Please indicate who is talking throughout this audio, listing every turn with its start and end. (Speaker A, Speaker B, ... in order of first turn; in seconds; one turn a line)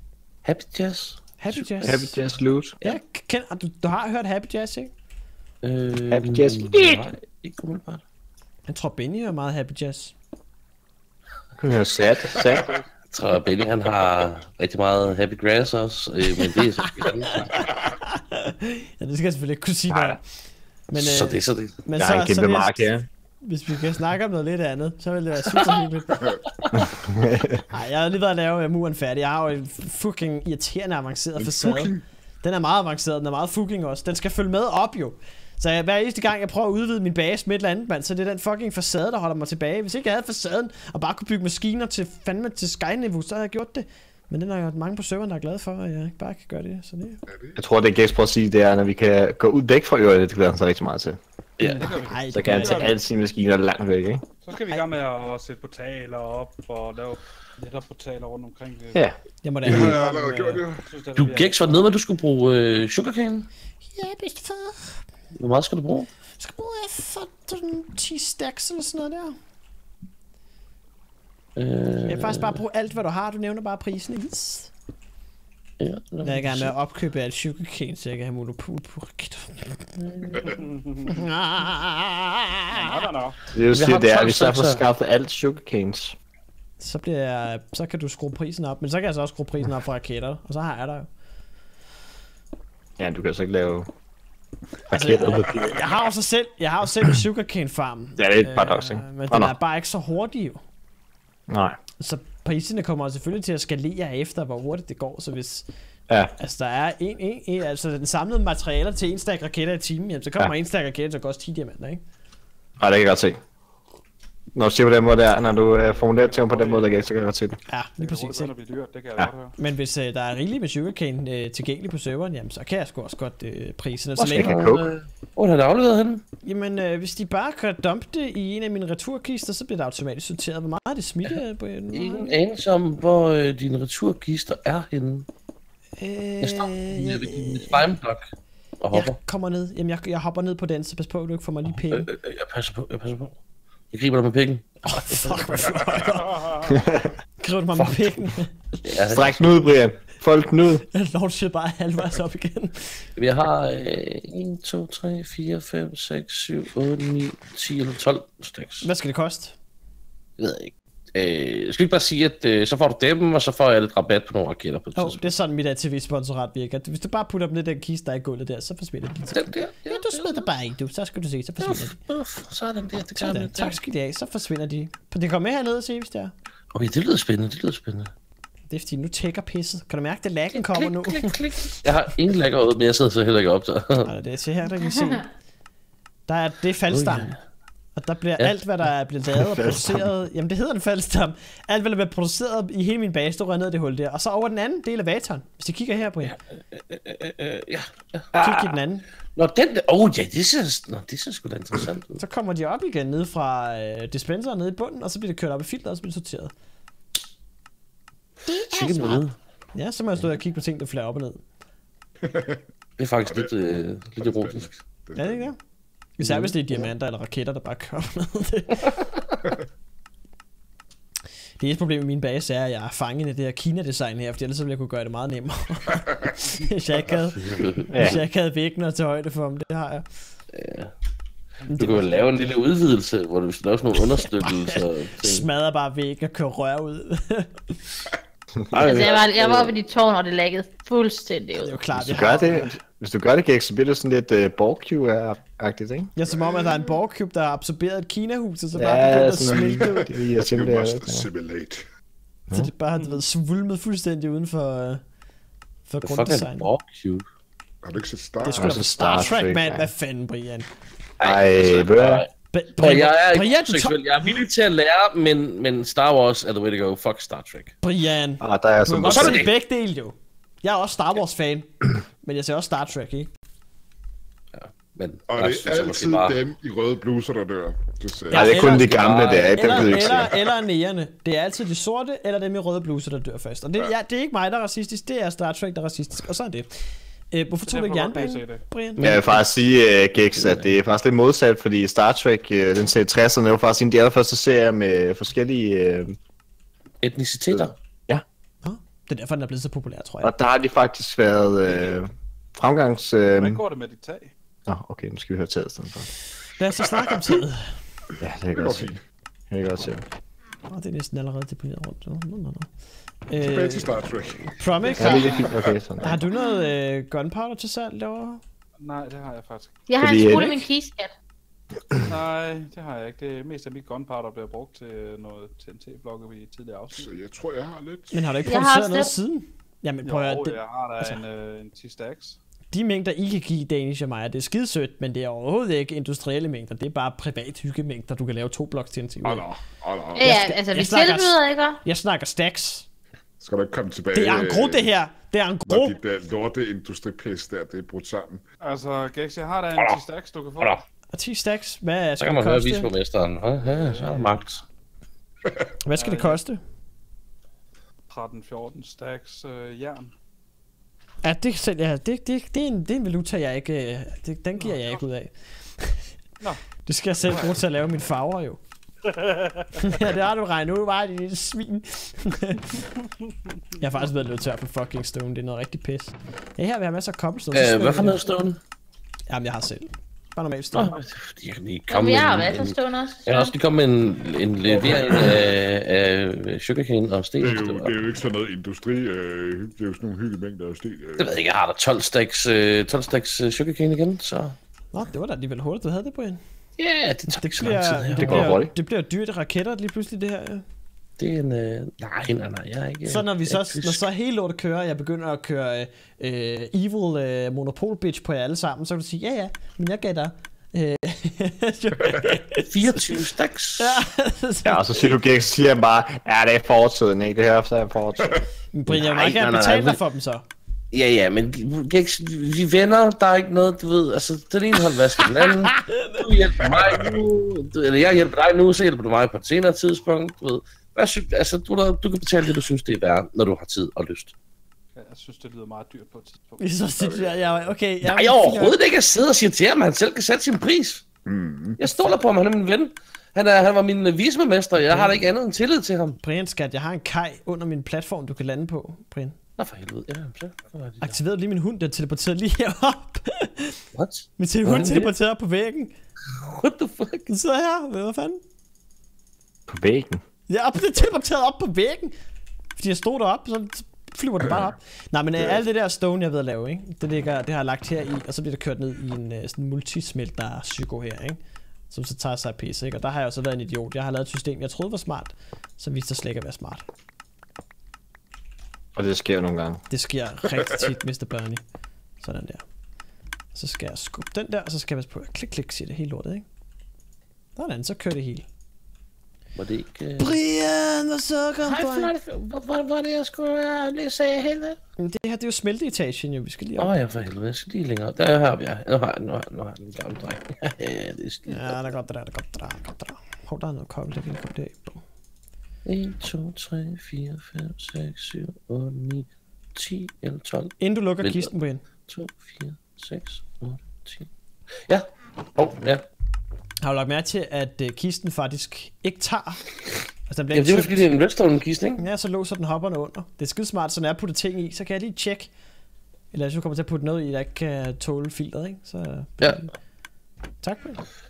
Speaker A: 0.4-2.1
Speaker B: 1.4-2.2
Speaker C: 1.8-2.8
Speaker B: 2.8-4.9
Speaker A: 5.6-8.0
Speaker C: 6.1-7.0
Speaker B: 8.7-10.1
Speaker C: 11.6-12.8
Speaker A: 13.1-17.6
Speaker B: 16.4-20.2
Speaker C: 19.9-20.2
Speaker B: 20.9-26.3
Speaker A: 20.9-21.8
Speaker C: 22.0-23.1
Speaker C: 26.7-27.6
Speaker B: 27.7-47.2
Speaker D: 31.4-32.0
Speaker D: 47.3-47.6
Speaker C: 47.5-51.2
Speaker A: 51.6-51.9
Speaker B: 51.6-53.0
Speaker E: 51.7-53.0
Speaker C: 52.3-54.2
Speaker E: 54.4-59.0
Speaker B: 59.4-60.6
Speaker D: 59.7-60.8
Speaker E: 60.8-61.9
Speaker A: 61.1-63.5
Speaker B: 63.9-65.0
Speaker A: 65.3-66.1
Speaker B: 66.4-69.3
Speaker A: 71.6-72.6
Speaker B: 72.1-74.7
Speaker A: 75.8-76.7
Speaker B: 76.2-80.5
Speaker A: 80.0-80.5
Speaker E: 80.5-81.2
Speaker B: 81.1-83.1
Speaker E: 82.7-83.4
Speaker C: 83.5-86.1
Speaker A: 83.7-84.8
Speaker B: 86.8-91.1
Speaker C: 93.0-93.9
Speaker C: 94.9-95.8
Speaker B: 94.9-100.6
Speaker C: 98.2-99.5
Speaker C: 101.5-101.7
Speaker B: 102.0-105.7
Speaker B: 106.4-112.0
Speaker C: 112.8-113.4
Speaker C: 114.5-117.6
Speaker E: 115.5-117.1
Speaker B: 117.7-118.5
Speaker E: 118.0-119.5
Speaker B: 119.6-124.6
Speaker A: 124.2-126.2
Speaker C: 124.3-124.9
Speaker B: 126.4-132.3
Speaker A: 131.9-135.3
Speaker B: 136.0-137.8
Speaker A: 136.4-138.2
Speaker A: 138.8-139.2
Speaker B: 138.9-142.1
Speaker A: 141.8-143.3
Speaker A: 143.9-145.6
Speaker B: 144.9-146.6
Speaker E: 146.1-146.7
Speaker C: 146.7-147.1
Speaker B: 147.4-148.5
Speaker A: 147.7-148.2
Speaker A: 148.8-149.4
Speaker C: 149.1-150.8
Speaker B: 150.9-153.0
Speaker A: 153.2-158.9
Speaker B: 158.8-159.6
Speaker A: 160.4-165.3
Speaker B: 164.9-172.0
Speaker A: 169.3-170.5
Speaker A: 171.6-173.8
Speaker B: 173.1-176.3
Speaker A: 176.7-178.1
Speaker B: 178.7-181.3
Speaker A: 180.5-184.1
Speaker B: 184.0-185.2
Speaker B: 186.3-187.3
Speaker A: 186.9-187.4
Speaker B: 187.9-196.3
Speaker C: 189.3-190.1
Speaker A: 196.2-198.7
Speaker B: 198.3-199.1
Speaker A: 199.3-202.2
Speaker B: 202.2-206.5
Speaker B: 208.5-211.4
Speaker A: 208.7-209.3
Speaker D: 212.2-212.6
Speaker A: 213.0-214.8
Speaker D: 214.2-215.2
Speaker B: 215.2-215.6
Speaker B: 216.2-219.0
Speaker A: 216.2-216.8
Speaker B: 221.6-230.0
Speaker A: 227.3-228.2
Speaker C: 227.9-228.2
Speaker A: 230.5-230.9
Speaker E: 231.6-232.4
Speaker B: 231.7-232.2
Speaker A: 231.8-235.5
Speaker B: 234.4-238.0
Speaker A: 238.7-239.8
Speaker F: 238.8-241.8
Speaker B: 241.6-242.8
Speaker C: 241.9-246.1
Speaker B: 246.2-250.1
Speaker C: 248.7-251.3
Speaker D: 249.5-251.8
Speaker B: 252.5-255.0
Speaker E: 252.9-253.2
Speaker B: 255.9-256.7
Speaker A: 256.0-257.2
Speaker D: 257.8-258.6
Speaker B: 258.4-260.7
Speaker C: 258.5-259.9
Speaker C: 261.2-262.2
Speaker A: 261.2-267.8
Speaker B: 262.5-263.9
Speaker B: 267.8-273.3
Speaker C: 268.4-269.5
Speaker A: 269.0-269.5
Speaker A: 274.5-276.4
Speaker D: 275.3-278.4
Speaker B: 278.3-278.9
Speaker C: 278.3-280.4
Speaker A: 278.4-280.3
Speaker B: 279.5-286.7
Speaker B: 287.3-289.0
Speaker E: 287.6-288.6
Speaker A: 288.9-289.6
Speaker C: 289.0-296.1
Speaker A: 290.3-290.8
Speaker A: 297.0-297.8
Speaker C: 297.5-298.2
Speaker B: 298.6-300.3
Speaker C: 300.2-303.6
Speaker E: 303.4-304.3
Speaker C: 304.7-306.1
Speaker B: 306.5-307.7
Speaker C: 308.2-308.9
Speaker D: 308.6-309.0
Speaker C: 309.5-310.0
Speaker B: 310.7-312.7
Speaker B: 313.3-315.4
Speaker D: 313.4-315.0
Speaker E: 314.9-315.5
Speaker C: 315.0-316.3
Speaker B: 316.0-318.4
Speaker E: 318.8-319.8
Speaker F: 319.9-321.1
Speaker C: 320.0-320.6
Speaker E: 322.1-327.1
Speaker D: 327.0-328.2
Speaker B: 328.1-331.2
Speaker F: 328.4-329.1
Speaker E: 330.0-332.4
Speaker B: 332.7-339.4
Speaker D: 339.2-340.2
Speaker F: 340.1-341.8
Speaker B: 340.2-342.9
Speaker D: 343.4-344.8
Speaker B: 344.1-346.0
Speaker D: 345.6-348.4
Speaker E: 348.6-350.8
Speaker A: 349.8-350.0
Speaker B: 351.1-352.9
Speaker A: 352.2-354.6
Speaker E: 353.6-354.4
Speaker B: 355.8-356.6
Speaker E: 355.9-356.4
Speaker E: 358.1-360.1
Speaker B: 361.2-366.0
Speaker E: 364.5-365.0
Speaker B: 366.8-368.6
Speaker E: 369.0-369.9
Speaker B: 369.7-372.8
Speaker E: 372.8-373.6
Speaker B: 373.8-378.2
Speaker A: 377.5-378.6
Speaker B: 379.3-380.9
Speaker A: 380.7-387.9
Speaker F: 381.9-383.5
Speaker B: 384.6-385.3
Speaker D: 387.4-391.2
Speaker A: 391.2-394.6
Speaker B: 394.9-396.4
Speaker A: 396.8-398.5
Speaker B: 397.3-400.6
Speaker C: 398.2-398.7
Speaker A: 401.2-404.0
Speaker B: 403.0-413.2
Speaker A: 412.6-414.0
Speaker B: 413.8-415.1
Speaker C: 414.6-418.4
Speaker B: 418.7-420.4
Speaker A: 418.9-420.0
Speaker A: 420.9-434.3
Speaker B: 425.7-426.2
Speaker E: 434.9-436.7
Speaker B: 436.6-438.8
Speaker A: 438.0-441.0
Speaker D: 441.2-441.8
Speaker A: 441.8-446.2
Speaker B: 444.8-445.2
Speaker B: 446.2-449.4
Speaker A: 449.6-451.2
Speaker B: 451.0-453.8
Speaker A: 453.9-455.1
Speaker B: 454.4-455.9
Speaker A: 456.3-457.3
Speaker B: 457.3-458.4
Speaker C: 459.7-460.2
Speaker B: 460.5-462.1
Speaker B: 462.8-476.8
Speaker C: 478.9-479.8
Speaker B: 479.9-481.6
Speaker B: 482.2-482.6
Speaker B: 483.5-486.4
Speaker B: 487.6-488.5
Speaker A: 489.6-490.4
Speaker B: 490.2-492.1
Speaker A: 491.6-494.8
Speaker B: 495.0-496.9
Speaker A: 496.8-501.8
Speaker B: 501.4-505.0
Speaker A: 505.8-511.5
Speaker B: 510.8-511.8
Speaker A: 512.1-514.3
Speaker A: 514.9-516.0
Speaker B: 516.8-519.6
Speaker B: 520.3-521.1
Speaker A: 520.5-522.0
Speaker B: 522.0-525.5
Speaker B: 526.3-529.7
Speaker B: 530.6-531.0